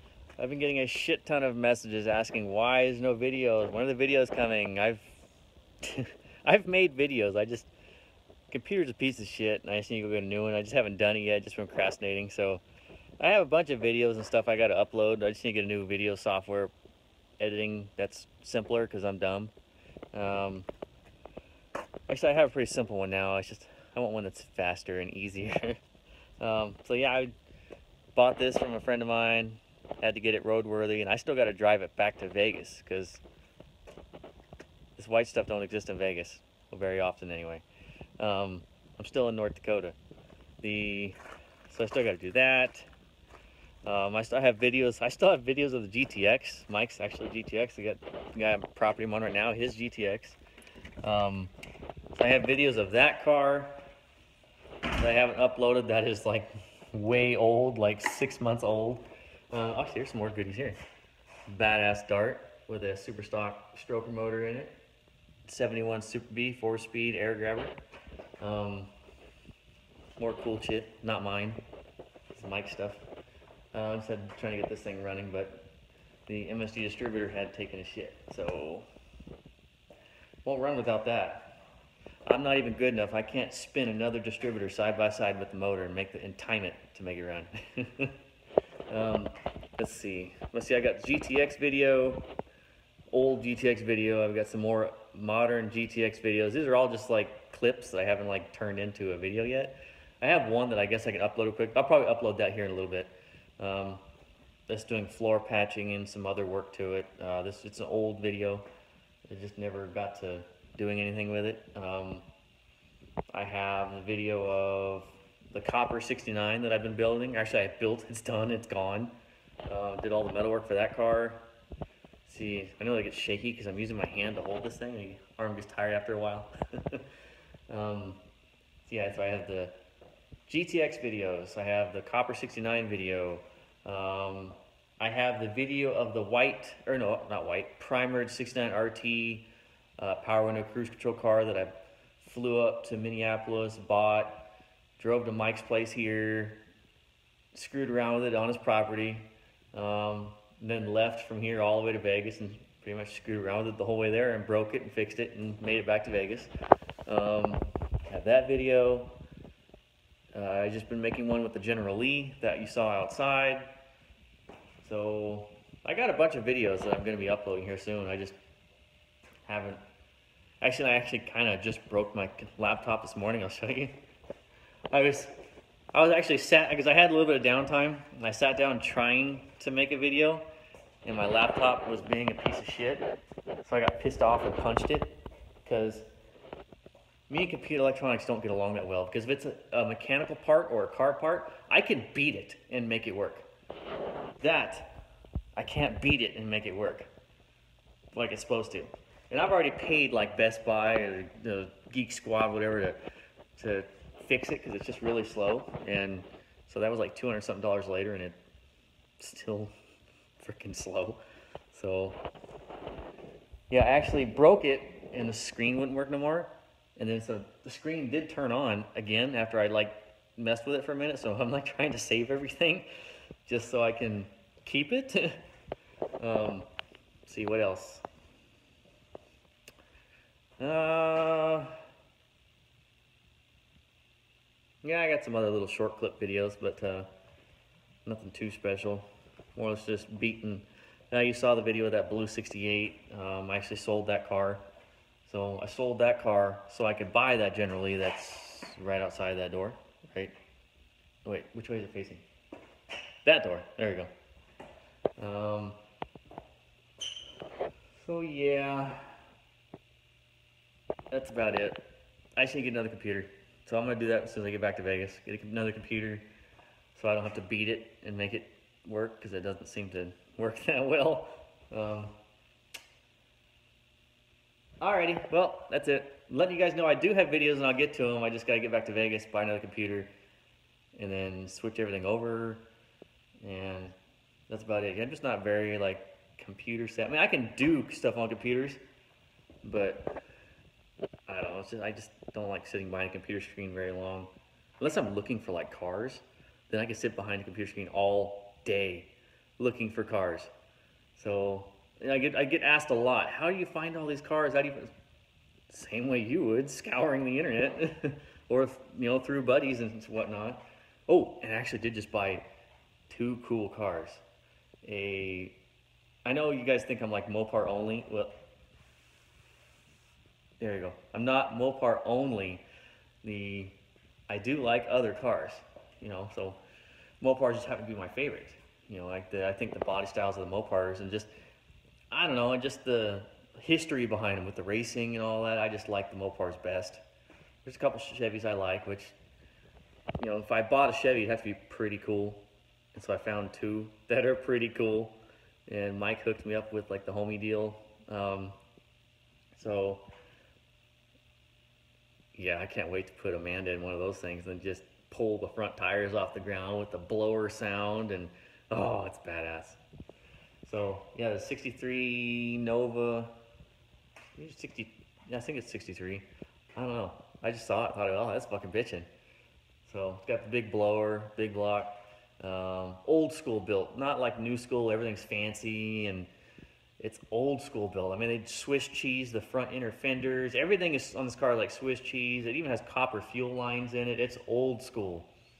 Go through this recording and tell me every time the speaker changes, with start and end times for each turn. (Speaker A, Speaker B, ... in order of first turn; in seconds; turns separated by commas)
Speaker A: 0.4-5.2, Speaker A: 5.8-7.7, Speaker A: 8.5-12.6, Speaker A: 13.2-16.7, Speaker A: 17.4-19.5, Speaker A: 20.1-20.7, Speaker A: 22.1-25.8, Speaker A: 26.4-27.3, Speaker A: 28.1-33.2, Speaker A: 35.0-37.6, Speaker A: 38.2-40.0, Speaker A: 40.6-41.2, Speaker A: 41.7-42.9, Speaker A: 43.8-50.4, Speaker A: 51.0-51.5, Speaker A: 52.1-53.8, Speaker A: 54.9-60.8, Speaker A: 61.5-64.7, Speaker A: 65.4-67.8, Speaker A: 68.4-68.9, Speaker A: 70.2-71.6, Speaker A: 72.3-73.0, Speaker A: 73.7-75.7, Speaker A: 76.3-78.9, Speaker A: 80.4-81.5, Speaker A: 82.2-88.2, Speaker A: 88.9-92.3, Speaker A: 93.1-104.0, Speaker A: 104.7-108.7, Speaker A: 109.3-112.3, Speaker A: 113.3-119.1, Speaker A: 119.7-121.4, Speaker A: 122.2-127.0, Speaker A: 127.7-128.2, Speaker A: 128.8-129.8, Speaker A: 130.5-144.5, Speaker A: 145.0-146.6, Speaker A: 147.5-156.5, Speaker A: 157.1-159.1, Speaker A: 160.3-163.7, Speaker A: 164.8-168.3, Speaker A: 169.4-169.8, Speaker A: 170.6-174.0, Speaker A: 174.9-175.3, Speaker A: 175.9-180.4, Speaker A: 181.0-183.1, Speaker A: 183.6-186.1, Speaker A: 187.3-193.5, Speaker A: 194.4-194.9, Speaker A: 195.6-197.1, Speaker A: 198.1-203.0, Speaker A: 203.6-208.4, Speaker A: 209.2-209.7, Speaker A: 210.4-211.2, Speaker A: 211.7-212.2, Speaker A: 213.7-222.9, Speaker A: 223.4-225.4, Speaker A: 226.2-226.7, Speaker A: 227.2-228.0, Speaker A: 230.6-231.8, Speaker A: 234.8-237.1, Speaker A: 238.0-244.7, Speaker A: 245.2-250.3, Speaker A: 251.2-252.2, Speaker A: 253.2-254.1, Speaker A: 255.2-255.8, Speaker A: 258.0-259.1, Speaker A: 261.1-261.8, Speaker A: 262.4-266.3, Speaker A: 266.9-272.1, Speaker A: 274.8-280.1, Speaker A: 280.9-282.7, Speaker A: 283.4-283.9, Speaker A: 284.5-288.8, Speaker A: 289.6-290.1, Speaker A: 291.3-300.5, Speaker A: 301.1-304.9, Speaker A: 305.7-312.4, Speaker A: 313.1-314.2, Speaker A: 314.8-315.6, Speaker A: 316.2-318.4, Speaker A: 320.6-322.6, Speaker A: 323.2-323.8, Speaker A: 324.3-326.6, Speaker A: 327.2-331.3, Speaker A: 332.1-337.0, Speaker A: 337.6-339.1, Speaker A: 340.2-348.6, Speaker A: 349.5-350.1, Speaker A: 352.3-359.8, Speaker A: 360.6-363.3, Speaker A: 364.4-369.1, Speaker A: 369.8-376.3, Speaker A: 377.0-385.3